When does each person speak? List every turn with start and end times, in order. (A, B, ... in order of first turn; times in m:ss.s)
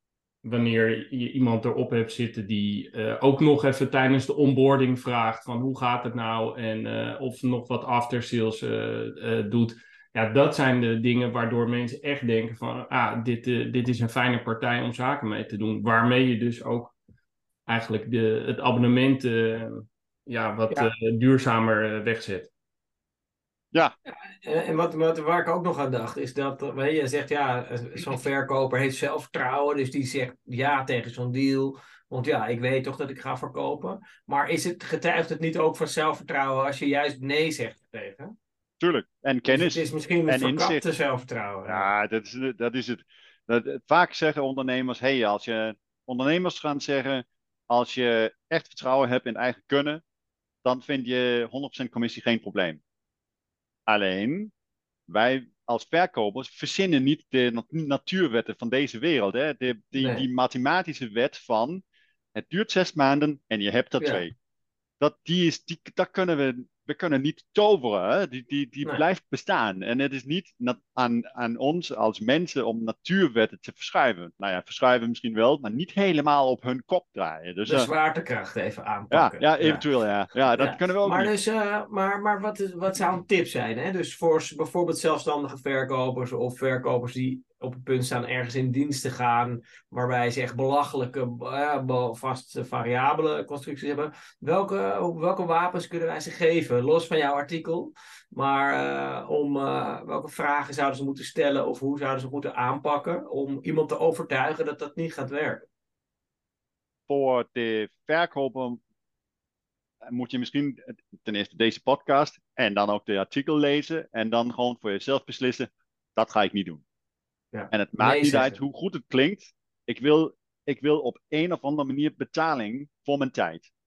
0:00.4-0:16.9 A
0:17.7-0:22.5 A
0:24.1-0:38.3 B
0:38.8-0:40.8 C
0:39.5-0:41.9 B
0:41.6-0:50.0 C
0:50.6-0:52.8 C
0:53.9-0:54.5 C
0:55.1-1:01.8 C
1:00.0-1:00.2 B
1:02.3-1:04.3 C
1:05.0-1:17.9 C
1:17.7-1:19.8 B
1:19.1-1:21.3 C
1:20.5-1:45.6 B
1:47.1-1:48.8 C
1:50.0-1:56.8 C
1:57.5-1:58.6 B
1:57.7-2:03.7 C